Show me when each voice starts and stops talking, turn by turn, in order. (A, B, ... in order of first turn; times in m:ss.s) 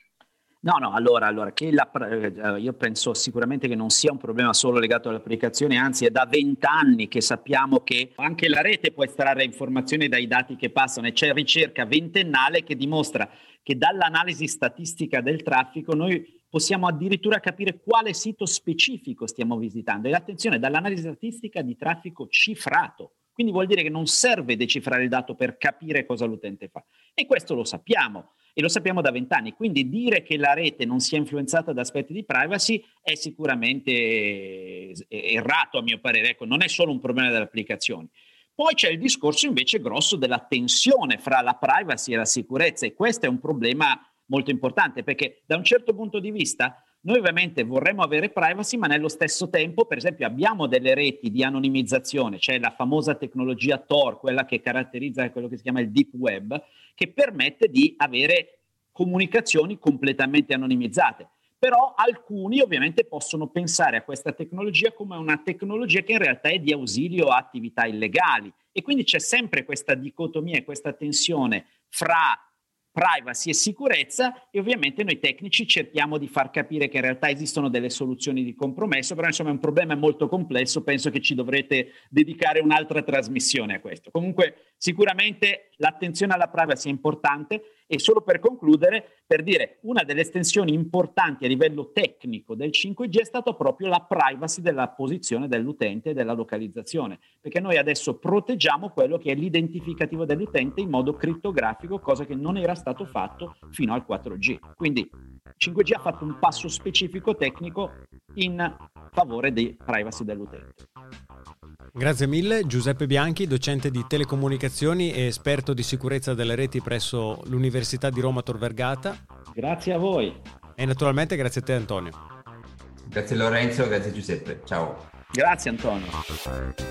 0:00.6-1:50.8 A
1:51.9-1:59.2 B
1:59.5-2:00.4 A
2:00.8-2:02.2 B
2:03.1-2:05.0 C
2:05.3-2:06.2 A